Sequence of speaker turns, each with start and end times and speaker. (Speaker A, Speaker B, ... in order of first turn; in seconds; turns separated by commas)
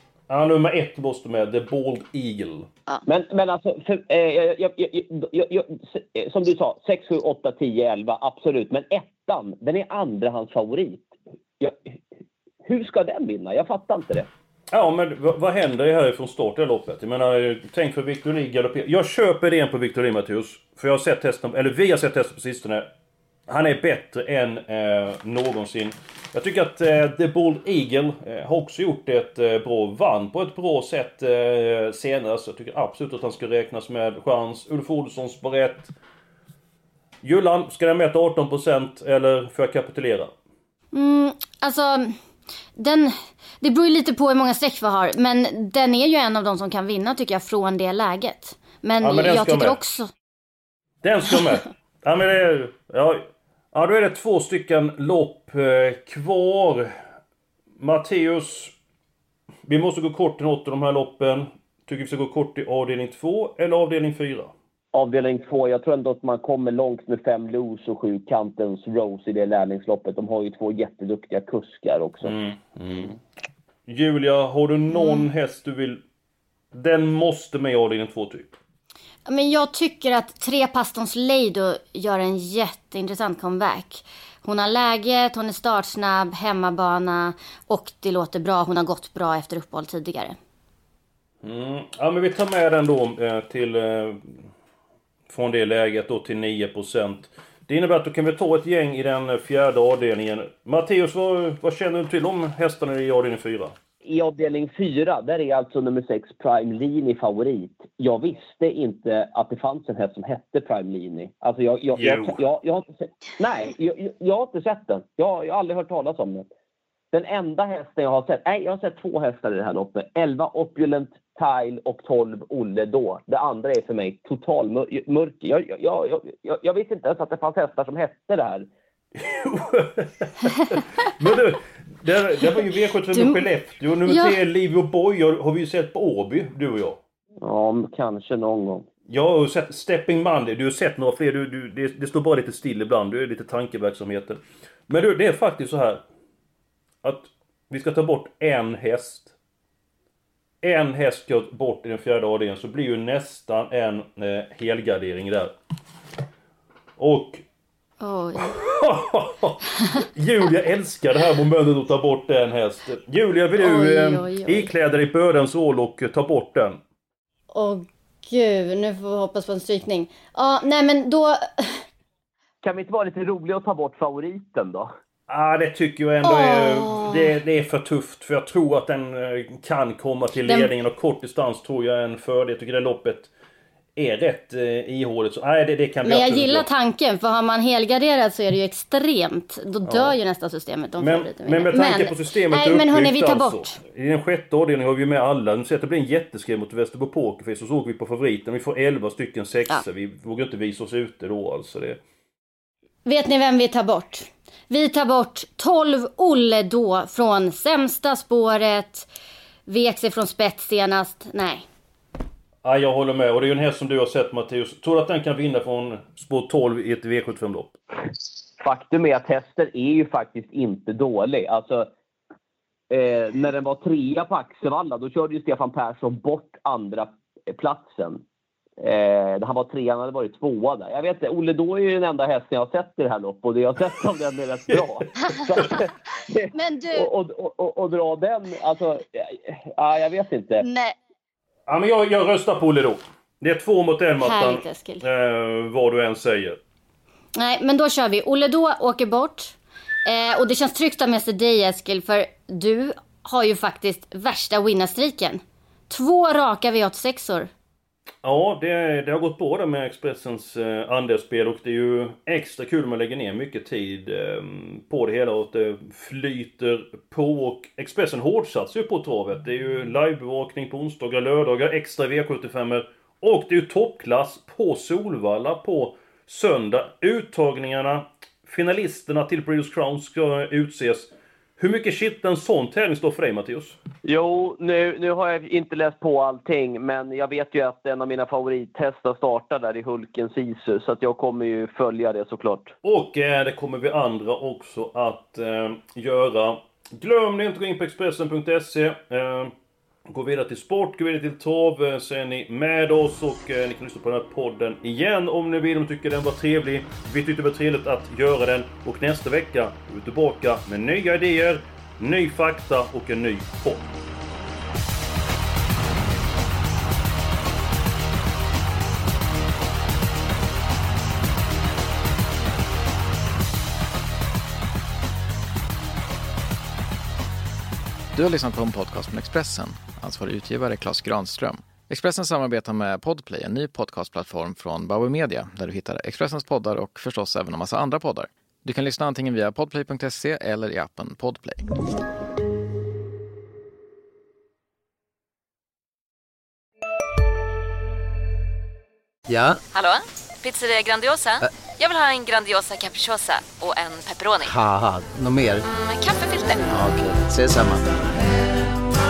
Speaker A: 0.3-2.7, Speaker B: 3.0-11.9, Speaker B: 12.6-14.3, Speaker A: 14.7-22.9, Speaker A: 23.5-35.9, Speaker A: 37.2-40.3, Speaker C: 40.9-42.1, Speaker C: 42.8-50.1, Speaker A: 49.0-49.8, Speaker A: 51.0-56.9, Speaker A: 57.8-58.7, Speaker A: 59.7-64.5, Speaker B: 64.9-72.3, Speaker A: 72.2-73.2, Speaker A: 73.9-76.0, Speaker C: 74.9-75.2, Speaker A: 76.7-78.5, Speaker C: 79.3-90.3, Speaker A: 91.4-94.3, Speaker A: 95.3-103.7, Speaker B: 104.0-116.5, Speaker A: 111.9-112.3, Speaker B: 117.1-128.7, Speaker A: 129.2-137.0, Speaker C: 133.1-133.4, Speaker C: 134.1-134.4, Speaker B: 137.4-138.9, Speaker A: 139.1-146.0, Speaker A: 147.0-149.3, Speaker A: 150.6-155.5, Speaker A: 157.0-157.4, Speaker C: 158.0-158.6, Speaker A: 158.5-166.8, Speaker C: 163.6-164.7, Speaker C: 167.5-171.8, Speaker B: 172.6-174.9, Speaker A: 175.3-183.3, Speaker C: 176.2-177.3, Speaker A: 183.9-186.7, Speaker C: 186.0-193.8, Speaker A: 189.8-190.2, Speaker A: 191.0-202.0, Speaker C: 203.1-209.1, Speaker C: 209.7-211.6, Speaker A: 212.6-217.7, Speaker B: 218.6-221.9, Speaker B: 222.9-228.2, Speaker B: 228.8-240.7, Speaker C: 235.3-235.7, Speaker C: 236.5-237.1, Speaker C: 240.6-240.9, Speaker A: 241.7-246.6, Speaker C: 244.2-245.0, Speaker C: 247.3-257.5, Speaker A: 258.2-283.8, Speaker B: 284.0-292.7, Speaker A: 292.8-299.5, Speaker A: 300.1-313.9, Speaker D: 328.1-341.7, Speaker E: 349.3-349.6, Speaker F: 349.7-354.5, Speaker E: 354.4-355.6, Speaker F: 355.7-356.7, Speaker E: 356.7-358.1